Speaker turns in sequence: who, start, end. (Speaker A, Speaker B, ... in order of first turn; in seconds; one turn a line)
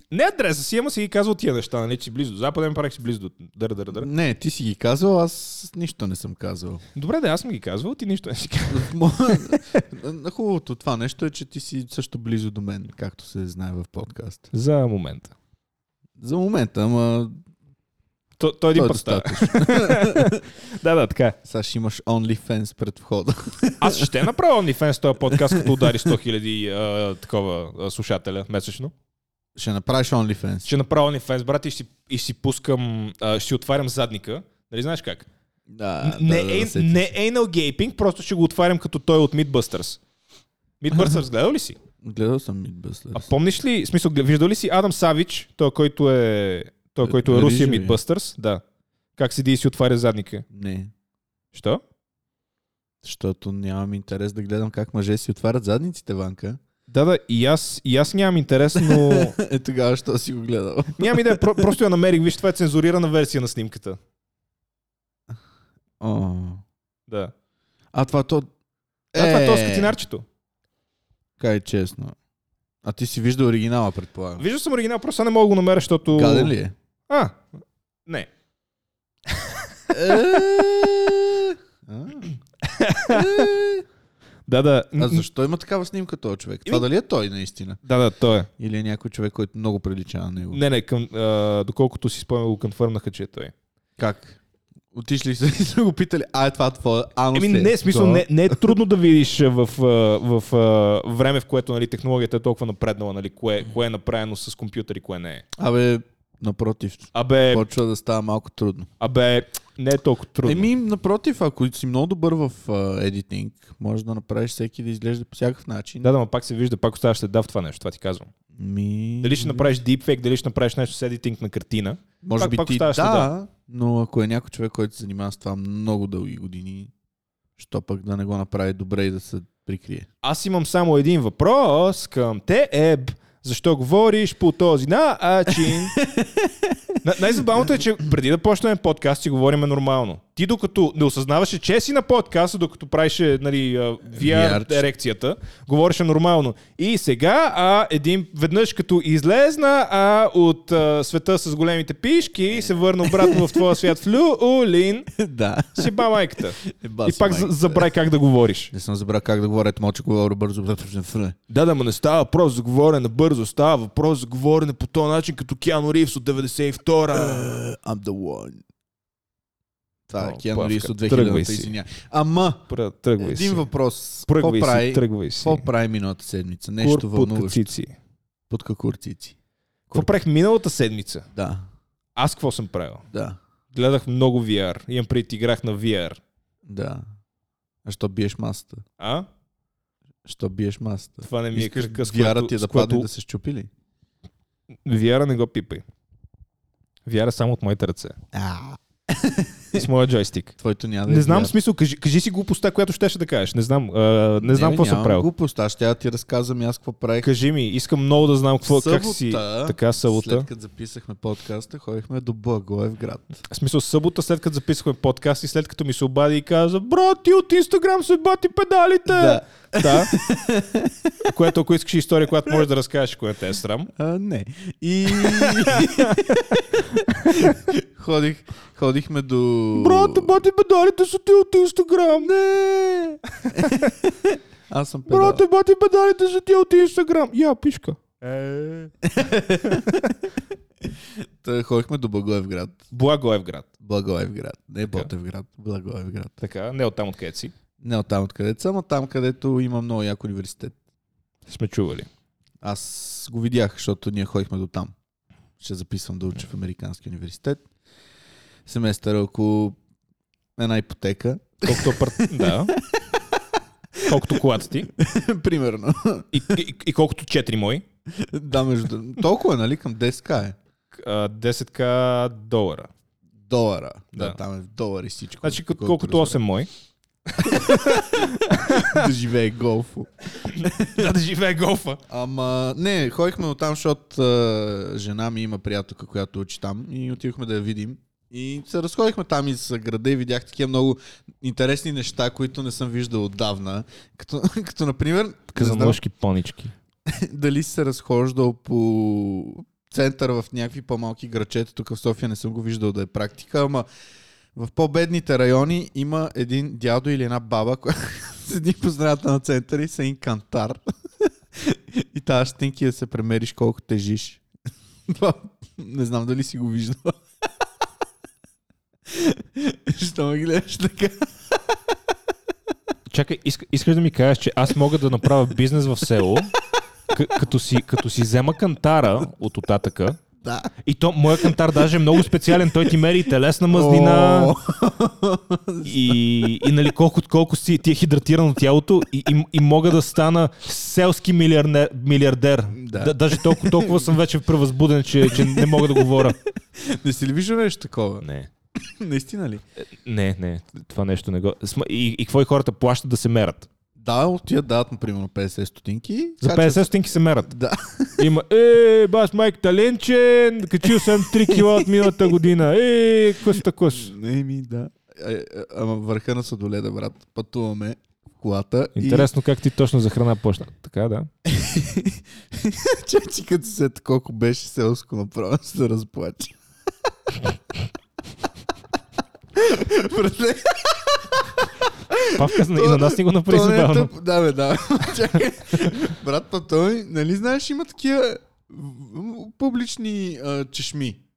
Speaker A: 0.1-4.1
Speaker B: 4.0-6.8
Speaker A: 7.0-9.8
Speaker B: 8.7-14.5
Speaker A: 14.5-15.3
Speaker B: 16.2-17.4
Speaker A: 18.4-21.4
Speaker B: 18.7-20.5
Speaker B: 21.4-24.2
Speaker A: 23.8-28.9
Speaker B: 25.3-26.1
Speaker B: 29.6-30.7
Speaker A: 30.7-35.3
Speaker B: 35.7-37.1
Speaker A: 36.0-40.0
Speaker A: 40.8-41.8
Speaker B: 42.0-43.3
Speaker A: 43.1-48.6
Speaker B: 47.0-48.0
Speaker A: 49.2-50.5
Speaker B: 50.5-50.9
Speaker A: 51.5-51.8
Speaker B: 53.0-56.6
Speaker A: 56.9-59.4
Speaker B: 58.8-61.7
Speaker A: 61.0-64.0
Speaker B: 66.0-66.6
Speaker A: 67.1-67.3
Speaker B: 67.9-68.5
Speaker B: 69.1-70.0
Speaker A: 69.2-70.2
Speaker B: 71.4-72.1
Speaker B: 72.8-74.5
Speaker A: 74.4-76.5
Speaker B: 76.1-76.7
Speaker A: 77.1-77.5
Speaker A: 79.3-80.4
Speaker B: 79.9-82.4
Speaker A: 82.6-83.5
Speaker B: 83.1-83.8
Speaker A: 84.5-85.2
Speaker B: 85.0-87.8
Speaker A: 87.8-88.5
Speaker B: 88.6-90.6
Speaker A: 90.5-93.5
Speaker B: 94.0-94.4
Speaker B: 94.9-98.7
Speaker A: 97.3-105.4
Speaker B: 105.6-108.9
Speaker A: 107.1-107.6
Speaker A: 109.0-110.7
Speaker B: 110.4-116.1
Speaker A: 116.0-118.3
Speaker B: 118.6-119.8
Speaker A: 119.2-123.3
Speaker B: 122.2-126.9
Speaker B: 127.6-130.1
Speaker A: 130.2-136.0
Speaker B: 136.0-137.8
Speaker A: 137.0-155.1
Speaker B: 144.1-144.9
Speaker B: 153.0-153.6
Speaker B: 155.1-156.1
Speaker A: 155.8-158.7
Speaker B: 156.6-157.9
Speaker B: 158.7-161.4
Speaker A: 161.5-167.6
Speaker B: 167.1-168.6
Speaker B: 170.1-172.7
Speaker A: 170.2-171.7
Speaker A: 172.7-173.7
Speaker B: 173.2-177.7
Speaker A: 174.3-175.7
Speaker A: 176.8-177.9
Speaker B: 178.5-179.3
Speaker A: 179.9-181.3
Speaker B: 181.3-181.7
Speaker A: 182.2-183.0
Speaker B: 183.1-183.4
Speaker A: 183.7-186.2
Speaker B: 186.7-187.0
Speaker B: 187.8-188.8
Speaker A: 189.0-189.3
Speaker B: 190.2-193.7
Speaker A: 191.2-193.1
Speaker A: 194.8-195.8
Speaker A: 197.1-198.2
Speaker B: 198.3-199.9
Speaker A: 199.7-200.5
Speaker B: 200.6-201.5
Speaker A: 201.1-205.3
Speaker B: 204.4-207.3
Speaker A: 207.2-210.5
Speaker B: 208.7-213.4
Speaker A: 213.5-220.1
Speaker B: 219.1-221.3
Speaker A: 221.3-223.9
Speaker B: 224.0-230.3
Speaker A: 225.1-226.3
Speaker A: 227.2-227.6
Speaker A: 229.8-232.3
Speaker B: 232.2-235.4
Speaker A: 233.4-233.9
Speaker A: 235.1-238.9
Speaker B: 239.0-240.1
Speaker A: 239.7-240.1
Speaker B: 241.4-242.8
Speaker A: 242.9-243.7
Speaker B: 243.8-246.4
Speaker A: 246.4-247.5
Speaker B: 247.8-250.8
Speaker A: 251.5-252.1
Speaker B: 252.6-254.9
Speaker B: 255.6-257.6
Speaker B: 258.7-259.8
Speaker B: 260.6-263.0
Speaker A: 261.6-262.7
Speaker A: 264.0-264.9
Speaker B: 265.0-266.6
Speaker A: 266.3-267.9
Speaker B: 268.2-270.6
Speaker A: 270.9-272.9
Speaker B: 273.5-276.4
Speaker A: 275.4-276.7
Speaker A: 277.3-279.1
Speaker B: 277.4-281.0
Speaker A: 280.3-282.0
Speaker B: 282.1-296.0
Speaker A: 295.5-296.7
Speaker B: 297.1-303.9
Speaker B: 304.5-310.8
Speaker B: 311.6-314.4
Speaker B: 315.1-317.2
Speaker B: 319.1-321.4
Speaker A: 323.1-326.5
Speaker A: 327.1-330.2
Speaker B: 330.4-330.7
Speaker A: 330.8-334.5
Speaker B: 333.7-336.2
Speaker A: 335.8-346.4
Speaker B: 342.7-344.1
Speaker B: 345.3-345.8
Speaker B: 346.8-348.2
Speaker A: 348.2-348.5
Speaker B: 348.9-349.6
Speaker A: 349.9-353.7
Speaker B: 354.0-356.9
Speaker A: 356.4-357.5
Speaker B: 357.5-358.2
Speaker A: 358.2-364.1
Speaker B: 361.2-362.2
Speaker B: 363.9-369.3
Speaker A: 369.0-371.3
Speaker B: 371.5-376.6
Speaker B: 379.5-391.2
Speaker A: 382.3-384.1
Speaker A: 385.4-385.9